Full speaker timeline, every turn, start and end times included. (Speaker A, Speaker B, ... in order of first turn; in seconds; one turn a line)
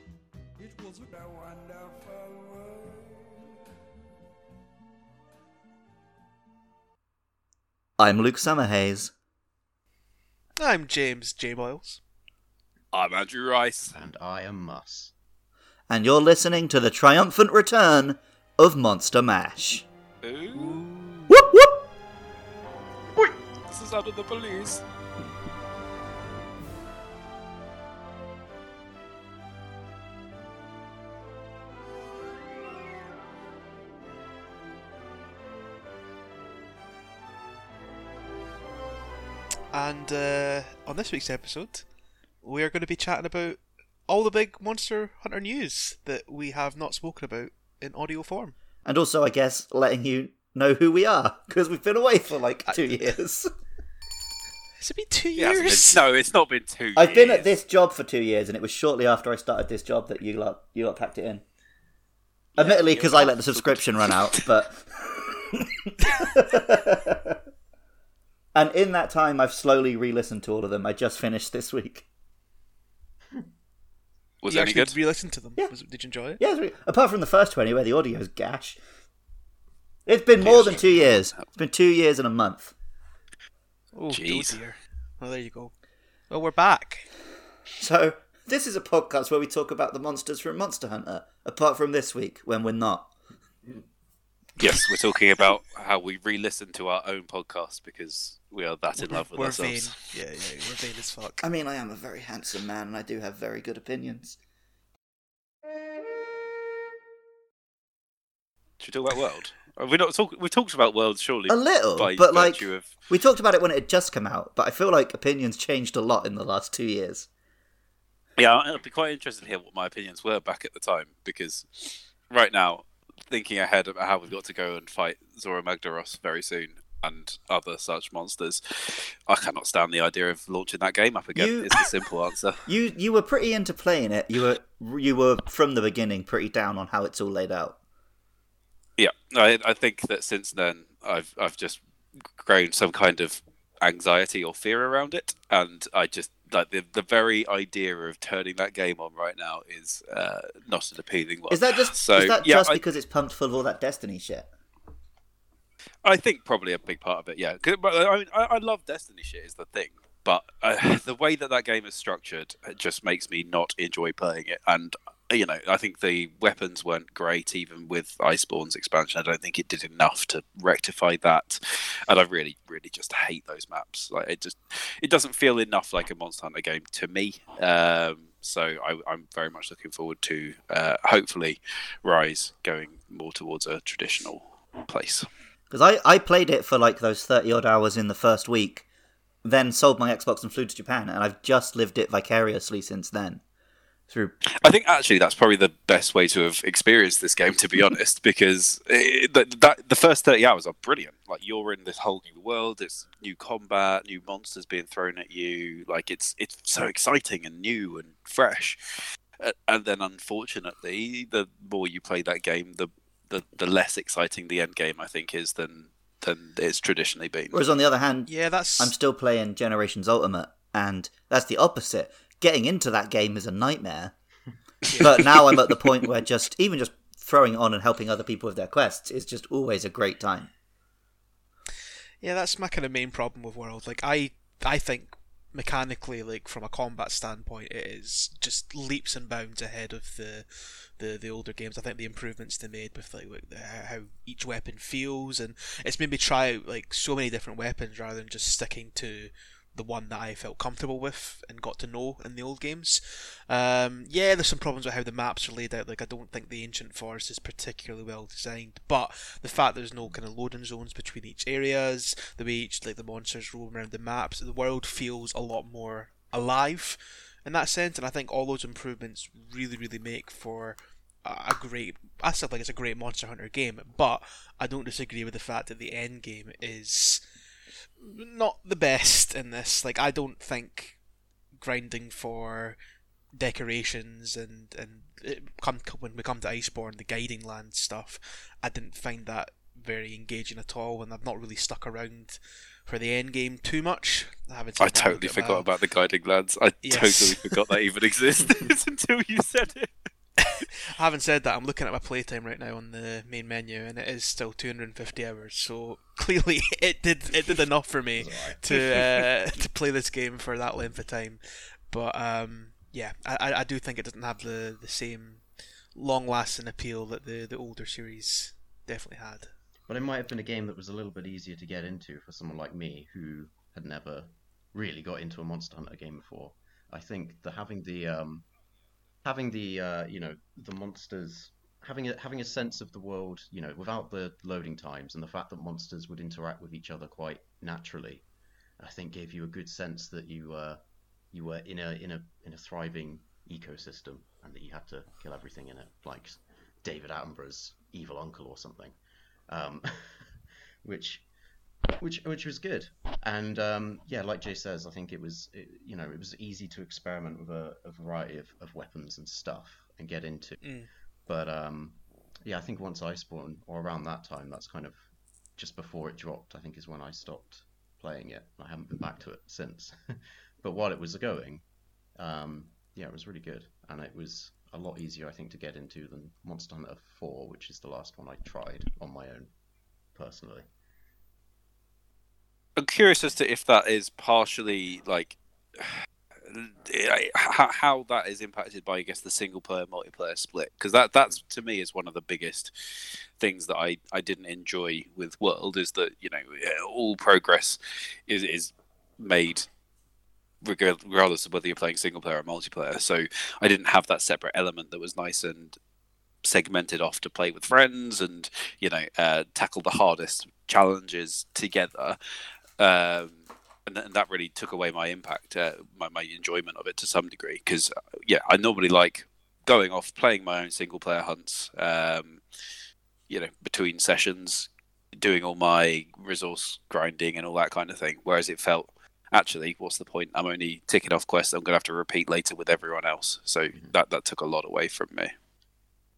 Speaker A: 0.6-3.5
Speaker B: 8.0-9.1
Speaker C: 10.6-12.0
Speaker D: 12.9-13.9
Speaker E: 13.9-15.1
Speaker B: 15.9-19.8
Speaker D: 20.2-20.8
Speaker C: 20.5-21.3
Speaker B: 21.3-21.7
Speaker D: 23.7-24.8
Speaker C: 39.7-41.9
Speaker C: 42.4-48.5
Speaker B: 48.8-53.5
Speaker C: 54.8-56.0
Speaker D: 55.4-57.5
Speaker B: 57.0-61.4
Speaker B: 62.5-67.4
Speaker D: 62.6-64.5
Speaker B: 68.5-72.0
Speaker D: 74.4-74.9
Speaker C: 74.5-76.4
Speaker B: 76.4-78.8
Speaker B: 80.0-82.7
Speaker D: 80.4-81.3
Speaker C: 83.9-85.7
Speaker D: 84.1-84.5
Speaker C: 86.3-87.1
Speaker B: 87.8-93.1
Speaker D: 94.6-100.0
Speaker C: 94.6-94.9
Speaker C: 99.0-101.5
Speaker B: 101.4-104.4
Speaker D: 108.8-112.9
Speaker B: 111.5-117.3
Speaker D: 118.4-132.6
Speaker B: 131.3-131.8
Speaker B: 132.7-137.8
Speaker D: 139.0-152.8
Speaker B: 151.5-154.5
Speaker D: 156.0-185.3
Speaker B: 185.7-188.8
Speaker B: 189.4-193.4
Speaker B: 194.1-194.4
Speaker D: 194.6-208.8
Speaker D: 209.4-217.6
Speaker B: 217.5-224.1
Speaker C: 218.3-218.9
Speaker B: 225.0-230.5
Speaker C: 232.2-277.2
Speaker C: 278.0-281.0
Speaker C: 281.6-282.8
Speaker C: 283.3-295.6
Speaker D: 294.8-299.9
Speaker C: 296.8-297.7
Speaker C: 300.4-319.5
Speaker E: 308.2-309.2
Speaker E: 319.9-328.5
Speaker E: 329.2-338.2
Speaker E: 338.8-349.0
Speaker E: 349.5-351.3
Speaker E: 352.0-365.1
Speaker C: 360.6-360.9
Speaker E: 365.6-379.5
Speaker E: 380.1-380.7
Speaker D: 382.8-399.7
Speaker D: 400.6-405.8
Speaker D: 406.4-412.2
Speaker D: 412.8-422.4
Speaker D: 423.3-435.3